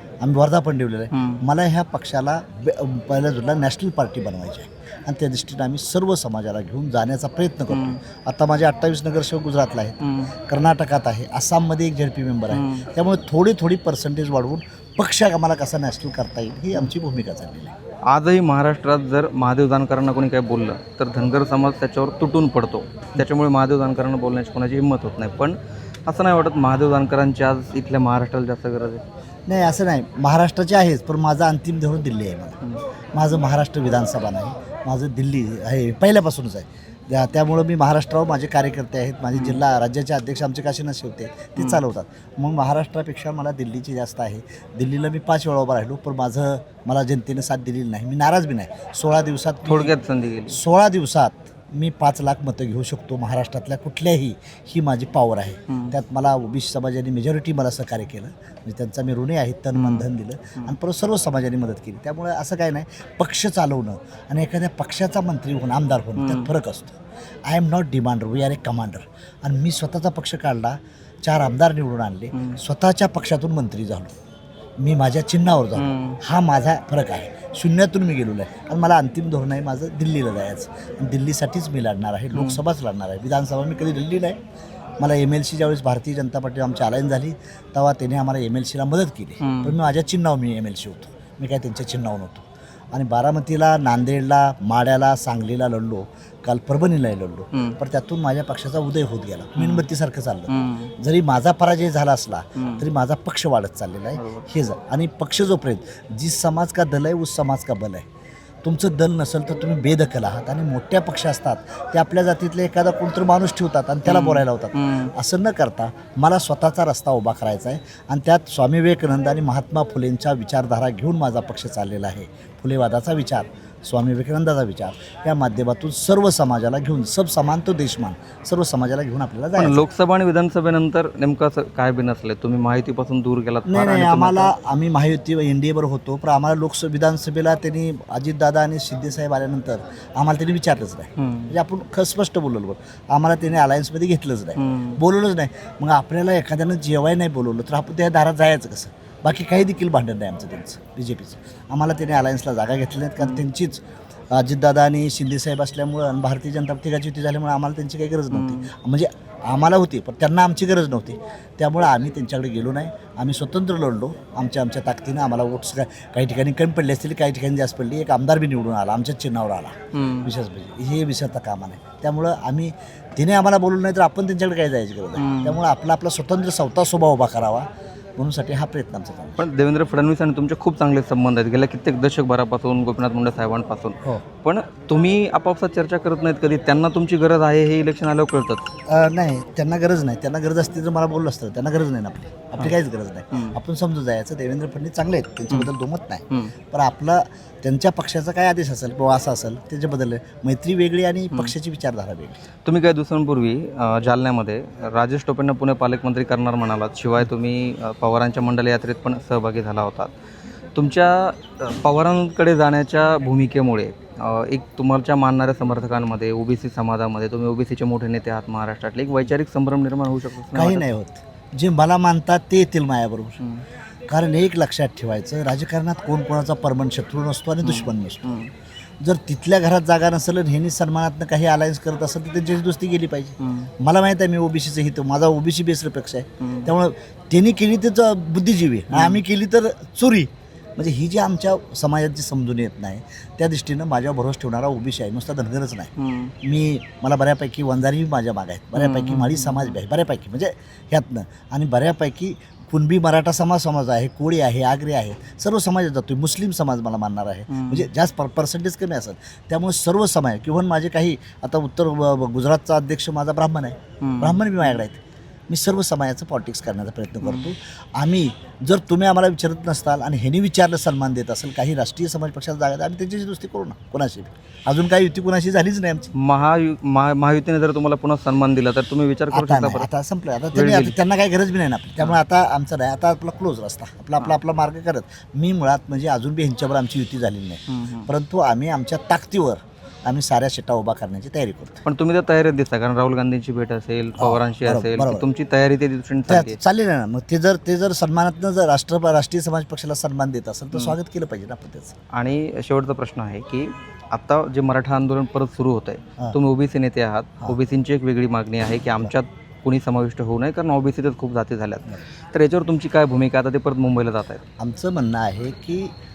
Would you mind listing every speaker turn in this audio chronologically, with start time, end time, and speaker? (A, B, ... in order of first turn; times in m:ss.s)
0:00.2-0:17.7 A
0:01.1-0:01.4 B
0:07.7-0:08.0 B
0:10.0-0:10.3 B
0:12.5-0:12.9 B
0:18.1-0:29.0 B
0:29.5-0:32.6 A
0:33.1-0:50.0 A
0:39.3-0:39.6 B
0:49.7-0:50.6 B
0:50.5-1:14.1 A
0:55.7-0:56.0 B
0:59.8-1:00.1 B
1:06.2-1:06.5 B
1:12.3-1:12.6 B
1:14.8-1:24.4 A
1:15.8-1:16.2 B
1:22.3-1:22.6 B
1:25.0-1:48.1 A
1:29.4-1:29.8 B
1:37.5-1:37.8 B
1:39.6-1:39.9 B
1:40.5-1:40.9 B
1:42.6-1:42.8 B
1:44.2-1:44.5 B
1:48.6-2:09.9 A
1:54.1-1:55.1 B
2:09.6-2:14.5 B
2:13.7-2:59.5 A
2:21.2-2:21.5 B
2:24.6-2:25.0 B
2:38.3-2:38.7 B
2:49.9-2:50.3 B
2:55.2-2:55.6 B
2:59.4-3:08.7 B
3:08.9-3:22.4 A
3:22.6-3:30.1 B
3:30.8-3:40.9 B
3:40.5-3:43.4 A
3:44.1-3:48.4 A
3:47.6-3:48.5 B
3:49.0-4:25.0 A
3:53.4-3:53.7 B
3:56.4-3:56.7 B
3:58.9-3:59.2 B
4:06.0-4:06.3 B
4:08.8-4:09.8 B
4:17.5-4:17.9 B
4:24.0-4:24.4 B
4:25.5-4:36.1 A
4:27.2-4:27.5 B
4:36.2-4:39.9 B
4:39.3-4:51.8 A
4:40.5-4:41.0 B
4:47.7-4:48.1 B
4:51.8-4:56.6 B
4:54.2-4:55.3 A
4:56.3-5:02.0 A
5:02.1-5:14.4 B
5:14.6-5:15.9 A